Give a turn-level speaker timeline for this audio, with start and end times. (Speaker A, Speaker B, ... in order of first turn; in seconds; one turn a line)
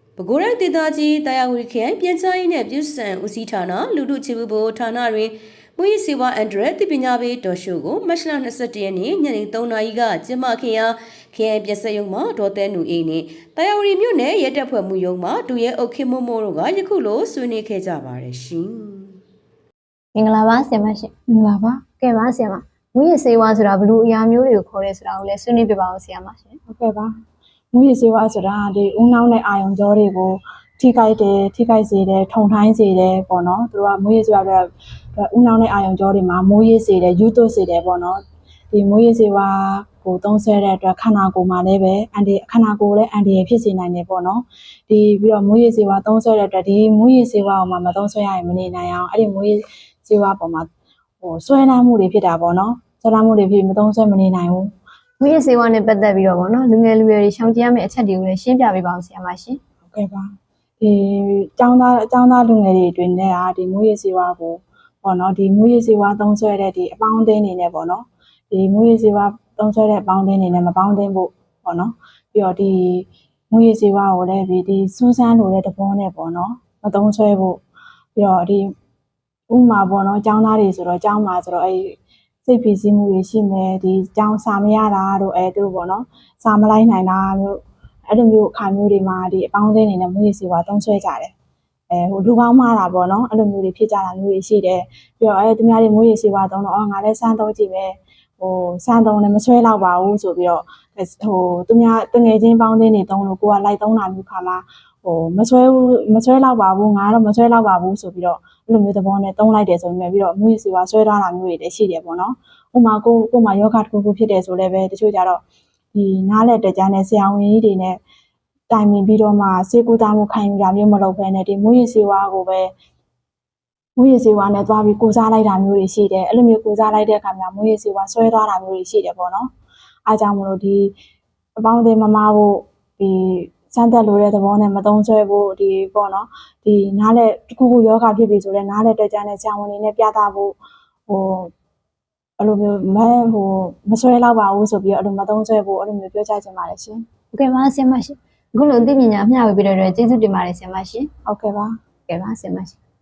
Speaker A: 0.2-19.2
Speaker B: 20.1-21.1
Speaker C: 21.3-21.8
Speaker B: 22.0-26.6
Speaker C: 26.7-27.1
Speaker C: 27.7-38.2
Speaker C: 38.7-50.7
Speaker C: 51.2-54.7
Speaker B: 55.2-59.6
Speaker C: 59.9-77.6
Speaker C: 78.1-78.7
Speaker C: 79.5-91.3
Speaker C: 91.9-115.4
Speaker C: 115.9-118.0
Speaker C: 118.7-122.7
Speaker C: 124.0-129.5
Speaker C: 130.1-130.9
Speaker C: 131.6-140.6
Speaker C: 141.1-141.5
Speaker C: 142.4-147.0
Speaker B: 147.3-151.1
Speaker C: 151.2-151.7
Speaker B: 152.1-152.8